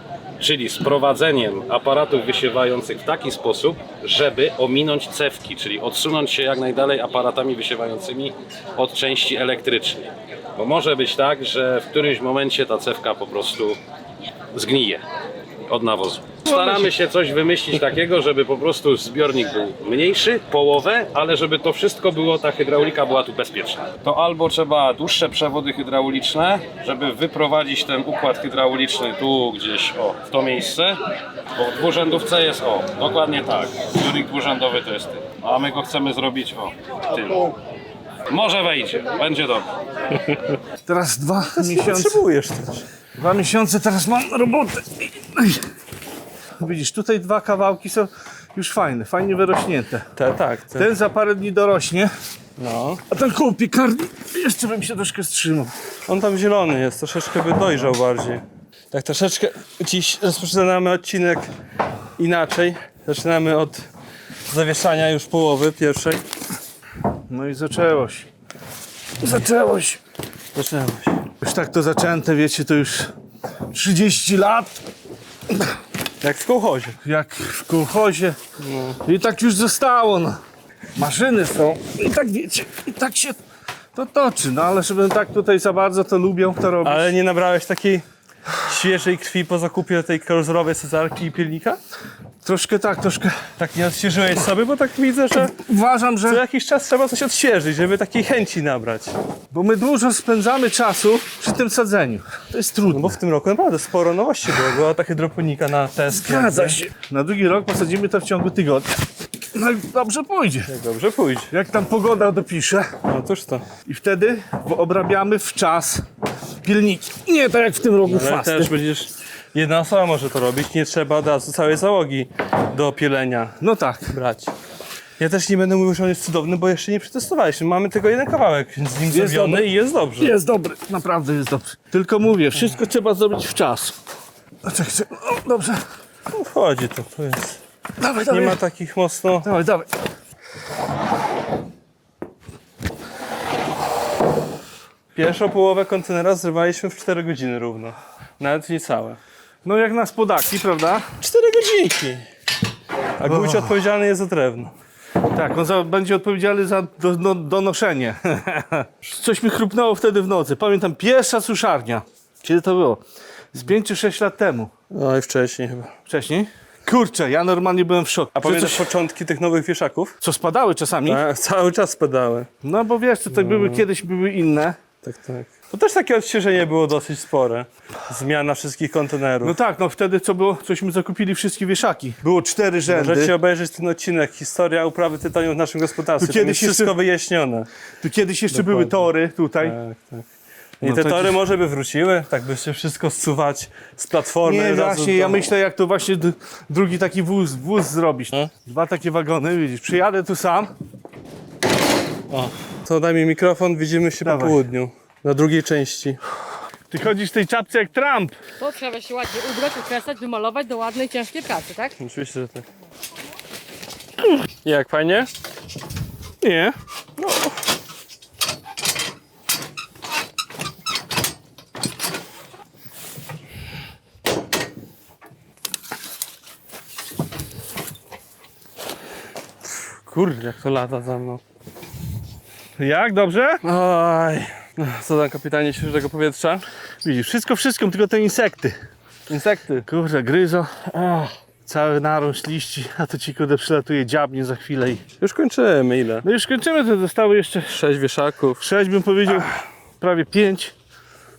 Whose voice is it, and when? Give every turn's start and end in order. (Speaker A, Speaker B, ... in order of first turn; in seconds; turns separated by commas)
Speaker A: 0.4-13.8, Speaker A: 14.5-15.0, Speaker A: 15.7-31.0, Speaker B: 16.5-16.8, Speaker A: 31.6-37.5, Speaker A: 38.3-39.7, Speaker B: 40.8-42.2, Speaker C: 41.5-42.9, Speaker B: 43.2-45.7, Speaker B: 46.6-50.1, Speaker C: 50.1-50.9, Speaker B: 50.8-52.1, Speaker C: 52.6-53.0, Speaker B: 53.1-55.7, Speaker C: 56.1-61.5, Speaker C: 62.2-63.9, Speaker C: 64.5-66.2, Speaker B: 67.3-68.3, Speaker B: 69.2-70.0, Speaker C: 70.5-71.0, Speaker B: 71.4-73.1, Speaker B: 73.7-74.8, Speaker C: 76.2-77.0, Speaker B: 77.0-78.4, Speaker C: 78.6-79.0, Speaker B: 79.0-80.4, Speaker B: 81.0-83.4, Speaker B: 83.9-87.1, Speaker C: 86.8-88.0, Speaker C: 88.6-91.8, Speaker B: 92.4-93.5, Speaker C: 93.6-95.6, Speaker B: 95.4-96.4, Speaker C: 96.2-99.1, Speaker B: 99.5-103.2, Speaker C: 102.9-106.8, Speaker B: 106.1-110.7, Speaker C: 110.7-111.5, Speaker B: 111.5-113.0, Speaker C: 113.0-113.7, Speaker B: 113.8-116.1, Speaker B: 116.6-118.8, Speaker C: 118.0-124.5, Speaker B: 123.6-124.1, Speaker C: 125.2-130.3, Speaker B: 129.1-133.9, Speaker B: 134.6-135.8, Speaker C: 136.3-137.6, Speaker B: 138.0-138.6, Speaker C: 138.3-139.5, Speaker B: 139.4-139.9, Speaker C: 145.2-149.2, Speaker B: 149.6-151.1, Speaker C: 151.2-152.2, Speaker C: 153.2-154.7, Speaker B: 153.2-153.8, Speaker B: 155.3-164.7, Speaker C: 164.9-165.9, Speaker B: 166.1-168.8, Speaker C: 168.4-170.2, Speaker B: 170.2-171.2, Speaker C: 171.0-172.5, Speaker B: 172.6-174.8, Speaker C: 173.3-173.8, Speaker C: 175.0-179.6, Speaker B: 179.4-183.3, Speaker C: 182.9-187.7, Speaker B: 186.2-186.9, Speaker B: 188.0-189.8, Speaker C: 188.5-190.2, Speaker C: 190.8-195.4, Speaker B: 190.8-191.4, Speaker B: 194.4-200.7, Speaker C: 202.3-206.2, Speaker B: 204.2-204.6, Speaker B: 206.9-208.3, Speaker D: 208.6-211.9, Speaker C: 212.0-212.7, Speaker C: 214.6-215.3, Speaker B: 216.4-216.8, Speaker C: 217.2-217.5, Speaker C: 230.0-231.4, Speaker B: 232.8-233.6, Speaker C: 233.6-236.6, Speaker B: 237.0-238.8, Speaker C: 239.3-239.8, Speaker B: 239.8-245.0, Speaker C: 245.2-246.2, Speaker B: 246.2-247.8, Speaker C: 247.7-248.6, Speaker B: 248.6-250.7